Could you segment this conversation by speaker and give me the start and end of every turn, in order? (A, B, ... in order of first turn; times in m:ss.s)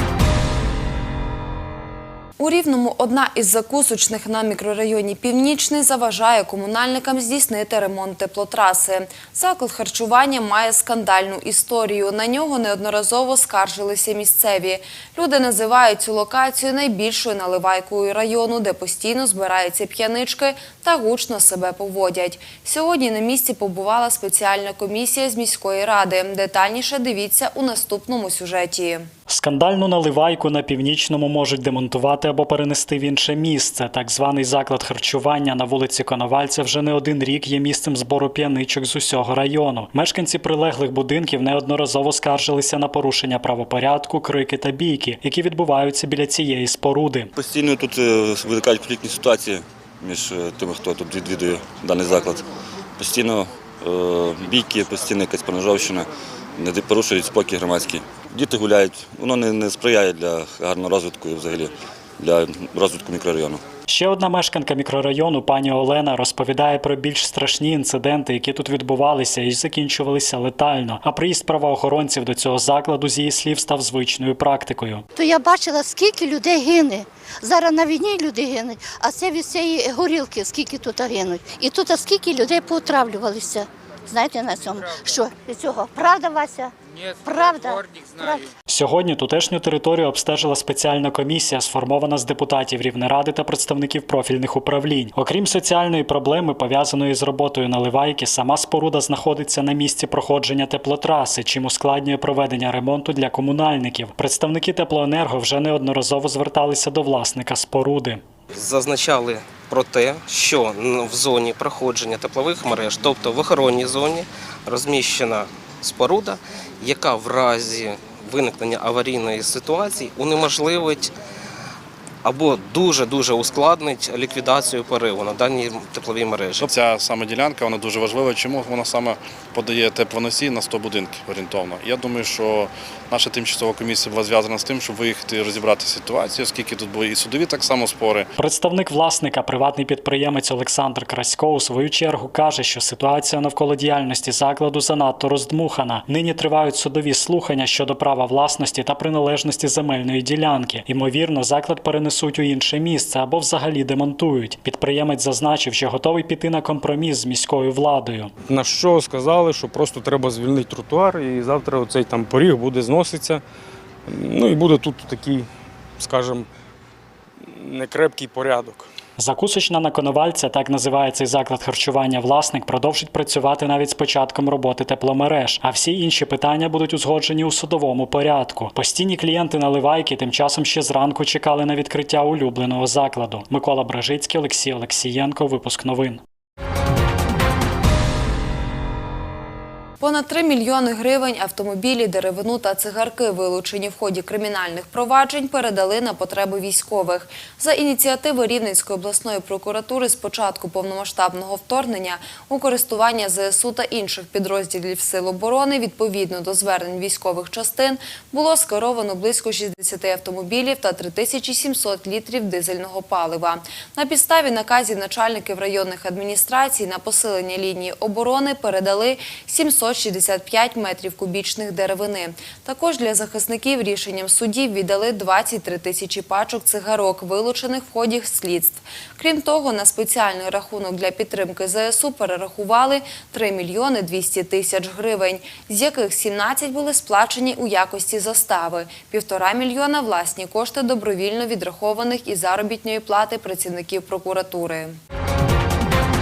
0:02.4-0:29.1 A
0:29.3-0:47.3 B
0:47.3-0:52.4 C
0:53.0-1:03.6 C
1:03.9-1:15.0 B
1:15.1-1:28.5 D
1:28.7-1:48.2 B
1:48.5-2:01.1 E
2:02.2-2:06.7 E
2:06.6-2:18.3 F
2:18.4-2:38.3 B
2:38.5-2:43.4 G
2:44.1-2:45.5 G
2:46.0-2:46.5 G
2:47.6-2:48.9 G
2:49.2-3:06.2 B
3:10.0-4:05.0 A